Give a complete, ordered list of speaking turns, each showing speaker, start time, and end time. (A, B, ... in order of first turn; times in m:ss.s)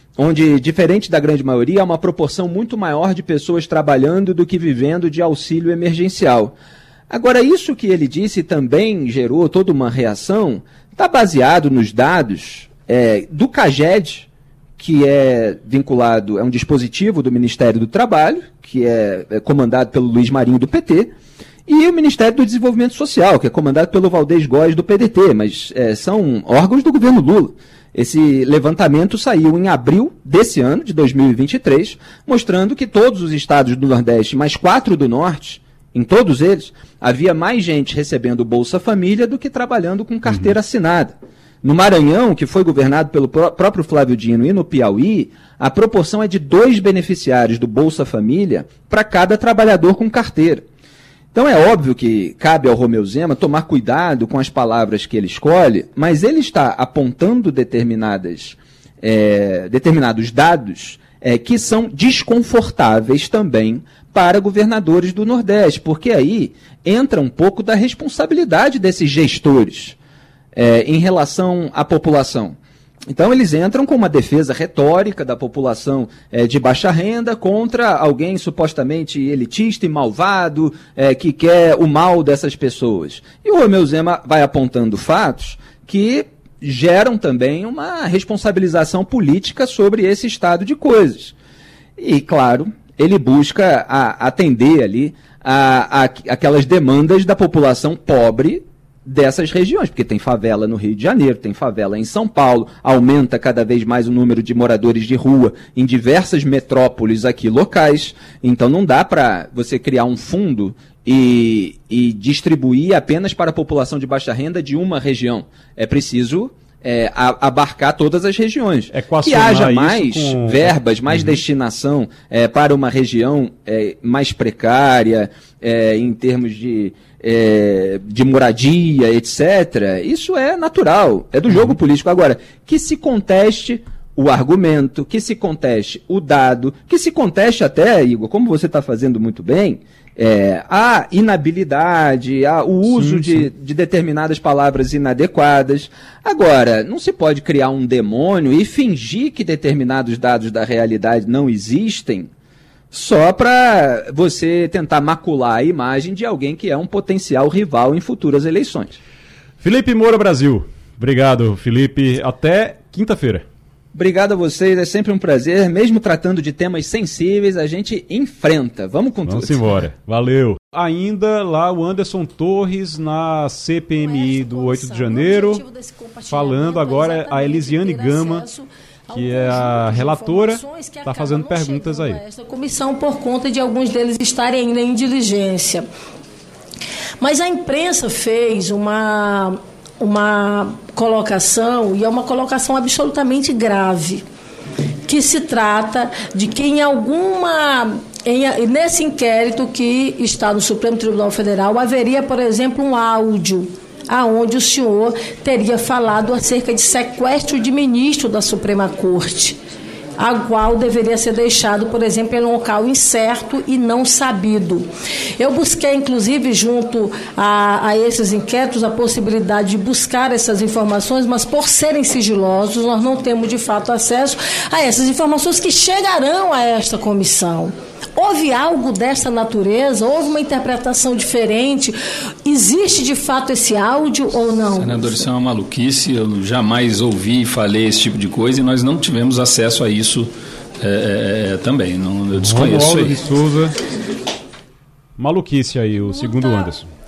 0:00.2-0:06.6 A
0:07.1-0:21.1 A
0:21.6-0:50.6 A
0:40.3-0:40.5 B
0:51.3-1:10.0 A
1:10.5-1:12.6 A
1:13.1-1:31.3 A
1:32.0-2:32.3 A
1:58.9-2:01.4 B
2:11.5-2:11.8 B
2:22.8-2:23.5 B
2:32.9-2:39.0 A
2:39.6-2:43.5 B
2:43.9-2:49.8 A
2:49.2-2:55.6 B
2:54.0-3:05.9 C
2:56.3-2:58.4 B
2:59.1-3:02.2 B
3:07.2-3:14.2 C
3:15.0-3:29.6 C
3:30.2-3:55.2 C
3:54.7-4:03.2 D
4:02.3-4:03.8 B
4:05.2-4:06.9 B
4:05.9-4:06.8 C